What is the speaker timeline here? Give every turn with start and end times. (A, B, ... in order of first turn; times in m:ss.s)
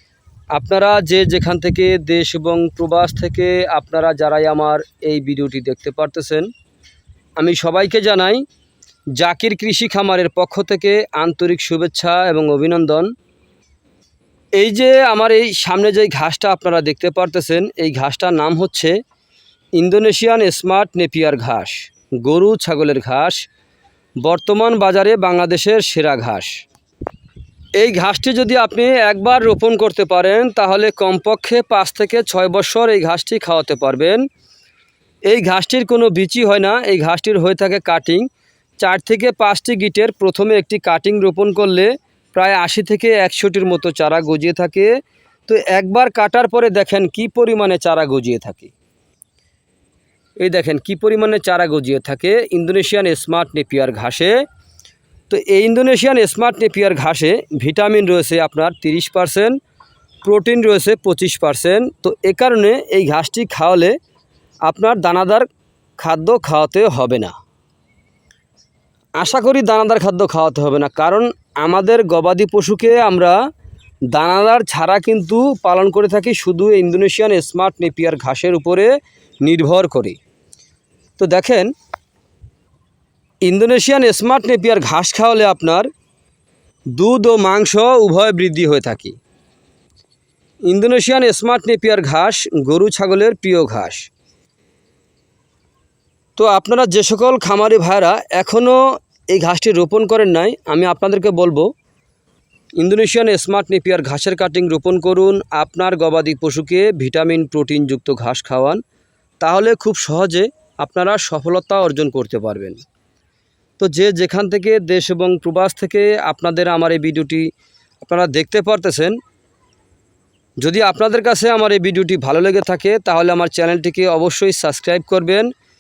0:00.5-0:06.5 A
0:07.4-0:08.4 A
0:09.2-0:13.1 A
0:14.6-0:19.0 A
0:19.8-0:23.5 A
0:24.2-0:26.6 A
0:27.8-0:34.2 A
0:35.3-0:38.3 A
0:38.8-0:44.9 A
0:45.5-0:48.7 A
0:50.4-0:54.4 A
0:55.3-0:59.6 A
1:00.2-1:04.0 A
1:04.7-1:05.5 A
1:06.0-1:07.4 A
1:09.2-1:13.4 A
1:14.1-1:18.9 A
1:19.4-1:20.2 A
1:21.2-1:21.7 A
1:23.4-1:25.9 A
1:27.0-1:29.2 A
1:30.7-1:34.1 A
1:36.4-1:41.7 A
1:42.8-1:48.8 A
1:49.4-1:52.8 A
1:53.8-1:57.5 A
1:58.0-1:59.2 A
2:00.6-2:05.5 A